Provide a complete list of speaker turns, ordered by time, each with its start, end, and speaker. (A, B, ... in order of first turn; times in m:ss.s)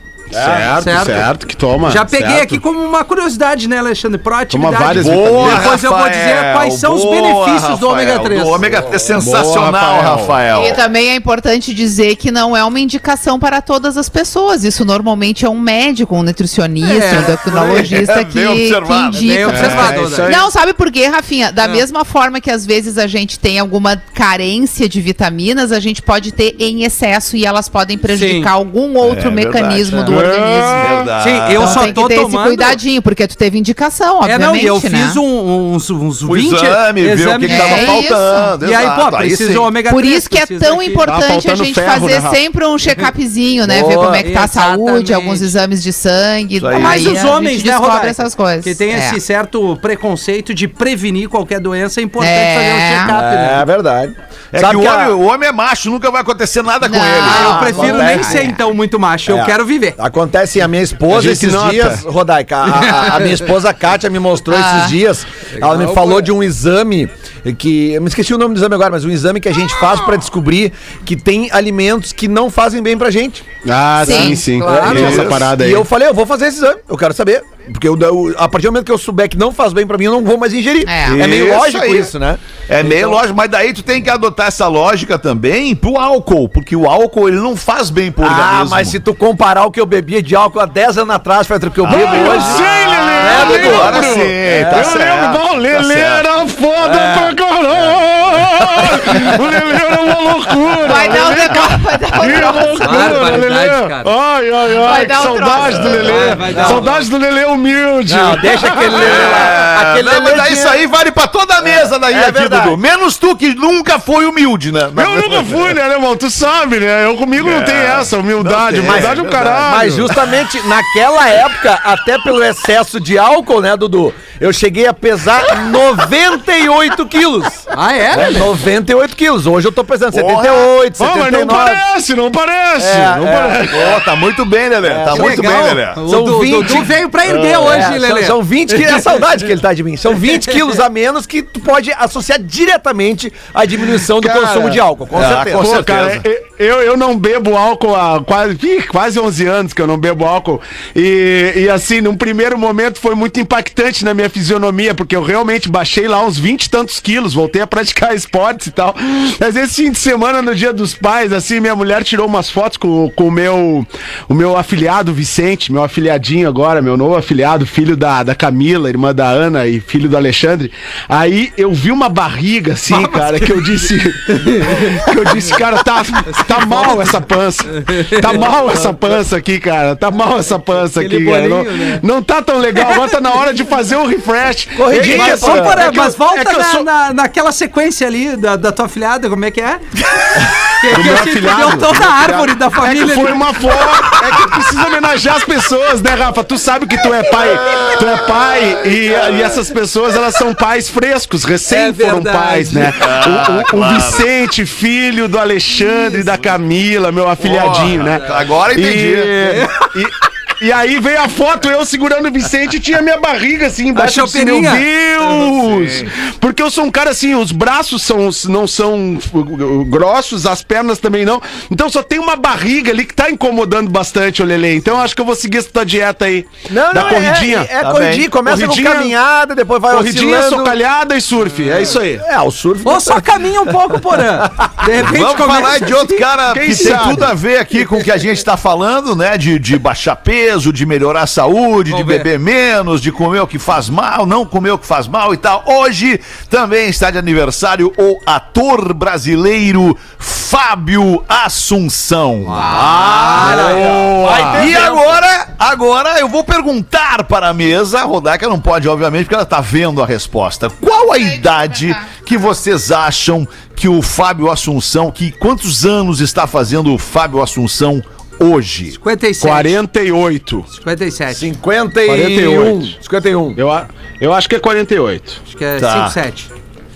0:00.3-0:02.6 A
0:00.3-0:00.8 B
0:00.8-0:01.3 C
0:01.8-0:08.6 C
0:04.5-0:05.7 A
0:04.9-0:10.8 D
0:09.2-0:10.4 A
0:10.5-0:35.2 E
0:16.8-0:17.9 C
0:17.4-0:19.9 D
0:19.1-0:20.4 C
0:19.5-0:20.5 A
0:21.6-0:21.8 C
0:28.1-0:28.5 C
0:29.0-0:31.9 D
0:30.1-0:30.8 A
0:31.2-0:32.8 C
0:34.2-0:38.1 C
0:36.2-0:39.7 D
0:37.4-0:38.5 E
0:38.6-0:41.0 C
0:39.9-0:49.2 E
0:41.0-0:42.4 A
0:43.6-0:44.2 B
0:44.2-0:45.5 C
0:46.6-0:47.3 D
0:46.7-0:53.6 C
0:52.2-0:53.1 E
0:53.1-0:55.2 B
0:54.5-0:57.8 D
0:56.8-0:58.6 E
0:57.2-1:00.0 C
0:57.3-0:58.5 B
0:59.3-1:13.4 B
1:01.1-1:02.0 A
1:02.6-1:03.4 C
1:04.5-1:05.0 E
1:05.6-1:06.3 C
1:13.6-1:15.9 A
1:14.0-1:14.6 E
1:14.0-1:23.2 B
1:14.1-1:15.2 C
1:14.9-1:15.5 D
1:20.8-1:21.4 E
1:21.0-1:22.1 D
1:22.7-1:29.0 D
1:28.2-1:35.0 B
1:31.8-1:36.2 D
1:31.8-1:49.2 A
1:36.8-1:37.3 B
1:38.9-1:39.3 B
1:40.8-1:43.4 E
1:42.8-1:44.1 C
1:44.8-1:46.3 E
1:46.0-1:47.1 C
1:46.5-1:46.8 B
1:48.1-1:50.8 B
1:48.9-1:55.8 D
1:51.6-1:52.8 B
1:55.0-2:00.2 A
1:57.4-1:59.7 D
1:58.8-2:11.8 B
2:07.7-2:08.5 C
2:10.1-2:10.7 D
2:11.0-2:13.9 A
2:12.8-2:14.0 B
2:13.7-2:16.0 D
2:14.8-2:25.8 B
2:15.1-2:19.2 C
2:20.3-2:20.6 C
2:24.1-3:06.9 A
2:25.1-2:26.2 D
2:52.9-2:53.8 C
2:54.3-2:55.1 C
2:56.3-2:57.1 C
2:57.8-2:58.5 C
3:00.9-3:02.0 C
3:02.8-3:03.1 C
3:04.7-3:05.9 B
3:04.9-3:09.8 C
3:10.6-3:13.6 C
3:10.9-3:47.7 A
3:19.0-3:19.4 D
3:21.7-3:23.0 C
3:22.9-3:24.3 D
3:27.4-3:29.6 D
3:28.0-3:28.3 C
3:29.4-3:29.9 C
3:33.9-3:35.5 C
3:46.7-3:50.8 B
3:47.8-3:48.3 D
3:48.4-3:49.2 A
3:49.9-3:52.2 A
3:52.1-3:53.4 B
3:52.8-3:57.0 C
3:54.4-3:54.8 B
3:55.0-4:13.7 D
3:56.5-3:57.3 A
4:01.9-4:02.3 C
4:12.6-4:13.3 E
4:12.7-4:13.8 C
4:12.8-4:15.1 B
4:12.8-4:14.7 A
4:14.5-4:29.0 D
4:20.9-4:22.1 E
4:28.9-4:29.8 C
4:29.4-4:30.7 A
4:30.7-4:31.5 C
4:31.3-4:33.6 B
4:32.1-4:32.9 A
4:33.6-4:35.4 A
4:35.4-4:36.5 C
4:35.8-4:36.2 D